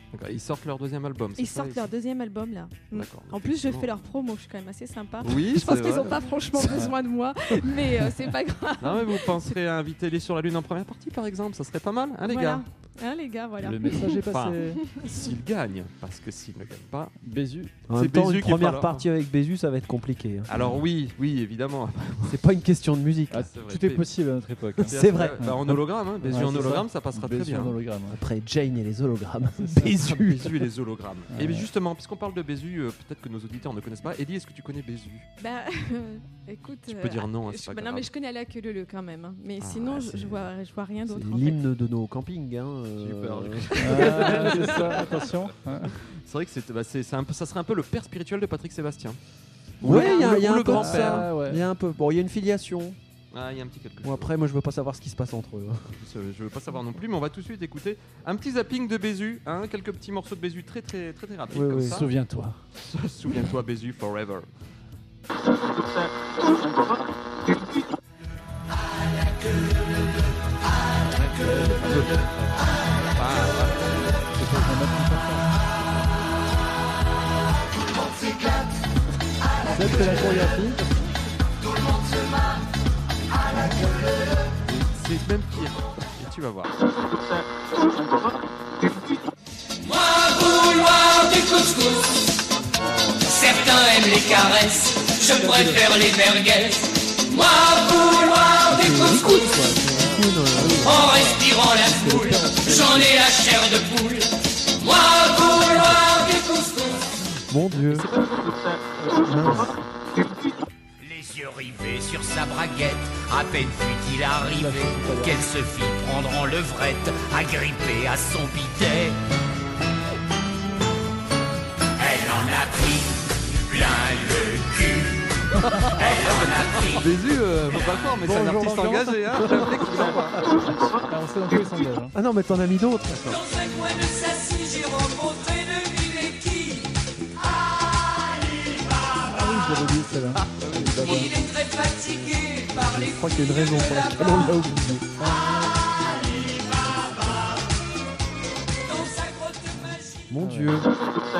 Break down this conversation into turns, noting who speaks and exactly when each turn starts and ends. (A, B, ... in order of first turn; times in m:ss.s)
0:00.1-0:01.9 A
0:01.4-0:09.5 B
0:02.9-0:03.9 A
0:05.2-0:06.2 A
0:08.8-0:12.6 A
0:12.2-0:14.2 B
0:13.6-0:14.8 C
0:14.3-0:17.2 A
0:17.2-0:17.7 C
0:17.9-0:20.5 D
0:17.9-0:19.0 A
0:20.5-0:22.4 A
0:22.3-0:23.5 D
0:23.3-0:28.2 C
0:23.5-0:24.1 A
0:24.8-0:25.6 D
0:24.9-0:27.8 A
0:28.1-0:30.7 D
0:30.0-0:35.3 A
0:31.3-0:31.7 C
0:35.4-0:41.6 B
0:36.9-0:38.1 A
0:39.6-0:40.3 A
0:41.0-0:44.5 D
0:43.0-0:45.2 A
0:43.8-0:45.9 C
0:44.0-0:45.0 B
0:46.0-0:49.2 A
0:49.8-0:50.4 B
0:49.8-0:51.3 A
0:49.8-0:53.0 D
0:50.1-0:51.6 C
0:53.3-0:54.3 A
0:54.0-0:56.0 D
0:56.0-1:02.1 A
1:01.5-1:02.0 D
1:01.8-1:02.6 C
1:02.8-1:04.5 A
1:11.1-1:12.2 A
1:11.4-1:12.5 C
1:13.1-1:14.2 A
1:14.3-1:15.5 C
1:19.6-1:21.0 C
1:20.1-1:20.4 E
1:24.6-1:26.9 A
1:29.8-1:32.4 E
1:33.2-1:39.5 E
1:35.4-1:35.8 D
1:38.6-1:41.2 D
1:39.8-1:43.0 C
1:40.8-1:47.1 E
1:42.0-1:43.1 D
1:47.5-1:48.1 D
1:47.8-1:49.6 A
1:49.2-1:49.8 D
1:49.3-1:49.7 C
1:51.0-1:59.2 E
1:54.4-1:55.5 C
2:02.0-2:05.3 E
2:05.9-2:07.1 E
2:06.0-2:10.4 A
2:08.2-2:12.1 C
2:12.1-2:13.4 D
2:13.3-2:17.0 E
2:17.5-2:19.3 E
2:19.3-2:21.2 C
2:20.6-2:21.3 D
2:20.9-2:24.6 E
2:22.9-2:25.0 D
2:25.2-2:25.5 C
2:25.3-2:27.6 E
2:28.8-2:30.3 E
2:30.3-2:30.9 D
2:30.4-2:30.8 C